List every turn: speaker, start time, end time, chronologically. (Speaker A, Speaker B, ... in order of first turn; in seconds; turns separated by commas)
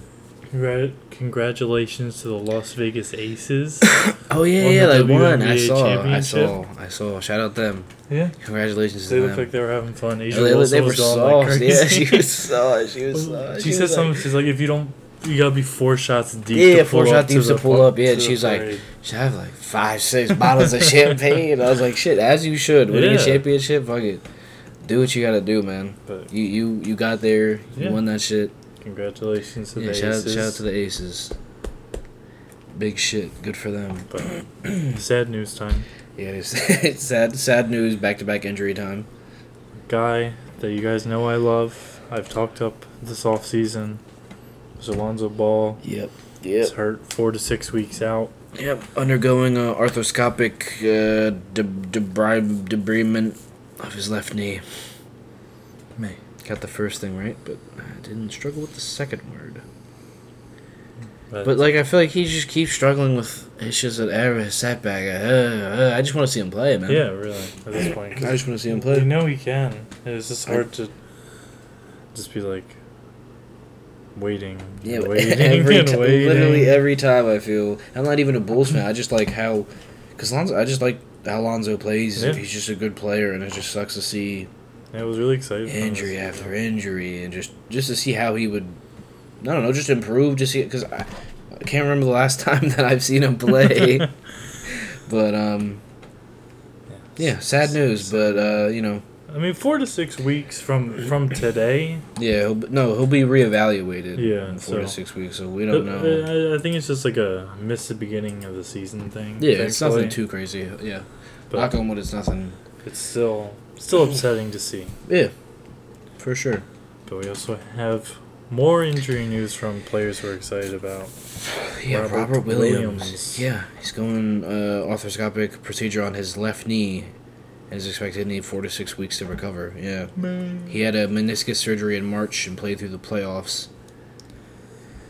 Speaker A: 0.5-4.0, Speaker B: 4.0-9.5, Speaker A: 4.6-6.6, Speaker A: 8.1-8.4, Speaker A: 9.1-12.3, Speaker B: 10.3-14.2, Speaker A: 13.1-18.9, Speaker B: 16.5-24.2, Speaker A: 22.9-23.5, Speaker B: 24.9-28.5, Speaker A: 28.8-30.6, Speaker B: 29.8-31.4, Speaker B: 32.7-35.0, Speaker A: 34.1-35.9, Speaker B: 36.2-39.1, Speaker A: 39.9-44.0, Speaker A: 44.8-45.8, Speaker B: 45.8-46.7, Speaker A: 46.6-48.3, Speaker B: 48.5-54.6, Speaker B: 56.4-59.6, Speaker A: 61.3-61.6, Speaker B: 61.4-67.1, Speaker A: 66.9-70.9, Speaker B: 68.2-69.2, Speaker A: 72.1-72.8, Speaker A: 74.2-76.8, Speaker B: 74.8-84.5, Speaker A: 82.2-82.4, Speaker A: 84.9-86.5, Speaker B: 85.7-88.8, Speaker B: 89.4-94.1, Speaker B: 94.7-95.8, Speaker A: 96.9-98.6, Speaker B: 97.2-99.0, Speaker A: 99.3-102.0, Speaker B: 102.2-106.3, Speaker A: 104.2-105.0, Speaker A: 105.7-110.2, Speaker B: 109.4-112.6, Speaker A: 112.8-115.0, Speaker B: 115.1-115.3, Speaker B: 116.2-116.7, Speaker A: 117.1-121.1, Speaker B: 121.7-127.1, Speaker A: 121.9-123.5, Speaker B: 127.7-130.1, Speaker A: 130.2-130.8, Speaker B: 130.7-133.7